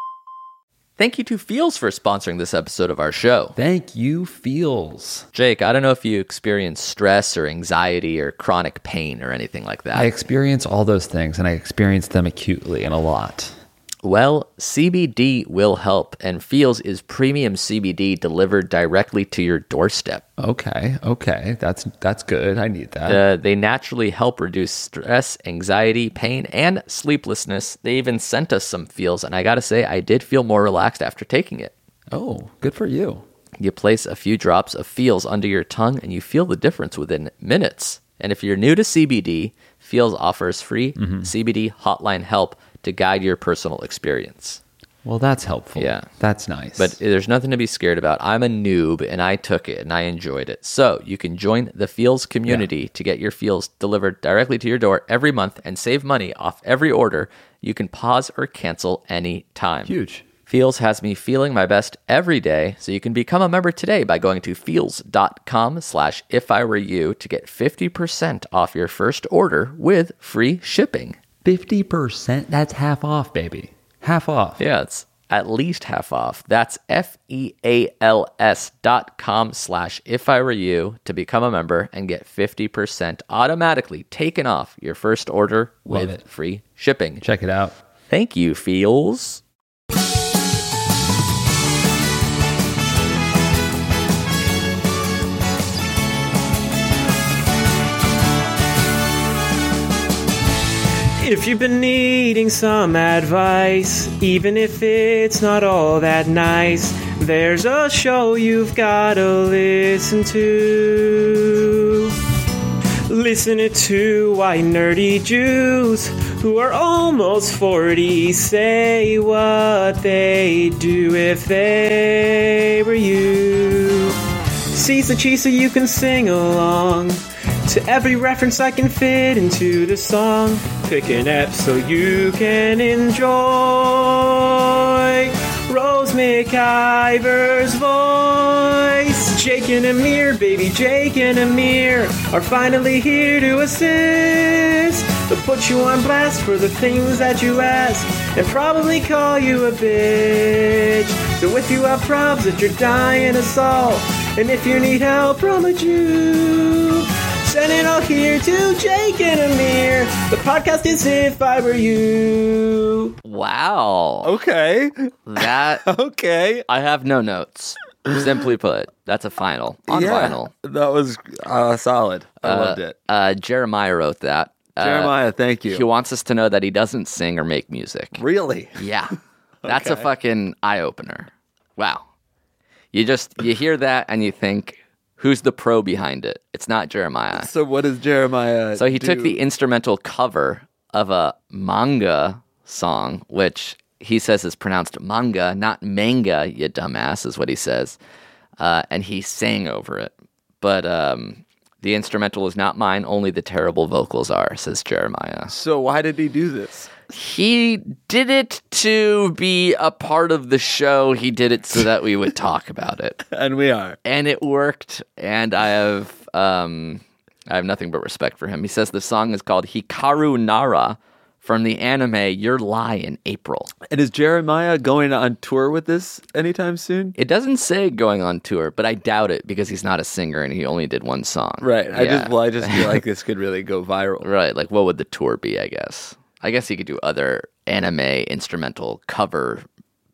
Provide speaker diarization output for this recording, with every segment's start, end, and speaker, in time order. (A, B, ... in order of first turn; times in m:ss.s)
0:01.0-0:03.6 A
0:03.6-0:05.2 B
0:05.3-0:10.1 A
0:09.9-0:13.5 B
0:14.0-0:20.2 A
0:20.4-0:23.2 B
0:23.0-0:31.7 A
0:32.1-0:33.2 B
0:33.6-0:44.6 A
0:41.0-0:41.3 B
0:45.0-0:47.0 B
0:45.8-0:46.1 A
0:46.8-0:59.9 A
0:59.8-1:00.2 B
1:00.4-1:11.2 A
1:11.4-1:14.6 B
1:14.6-1:27.2 A
1:25.9-1:26.2 B
1:27.2-1:27.7 B
1:28.1-1:29.4 A
1:41.2-1:52.1 C
1:53.1-2:04.2 C
2:04.7-2:43.2 C
2:43.2-2:44.3 A
2:44.2-2:46.7 B
2:45.3-2:45.8 A
2:46.7-2:50.5 A
2:49.9-2:53.0 B
2:52.4-2:55.1 A
2:54.8-2:55.9 B
2:55.7-2:58.2 A
2:58.1-2:58.9 B
2:58.8-3:02.1 A
2:59.6-3:00.1 B
3:02.9-3:07.5 A
3:07.3-3:09.4 B
3:08.8-3:18.0 A
3:18.6-3:25.5 A
3:25.5-3:26.9 B
3:27.1-3:33.2 A
3:33.2-3:34.0 B
3:34.0-3:43.7 A
3:43.9-3:47.2 B
3:47.2-3:52.9 A
3:51.6-3:54.3 B
3:54.2-3:59.6 A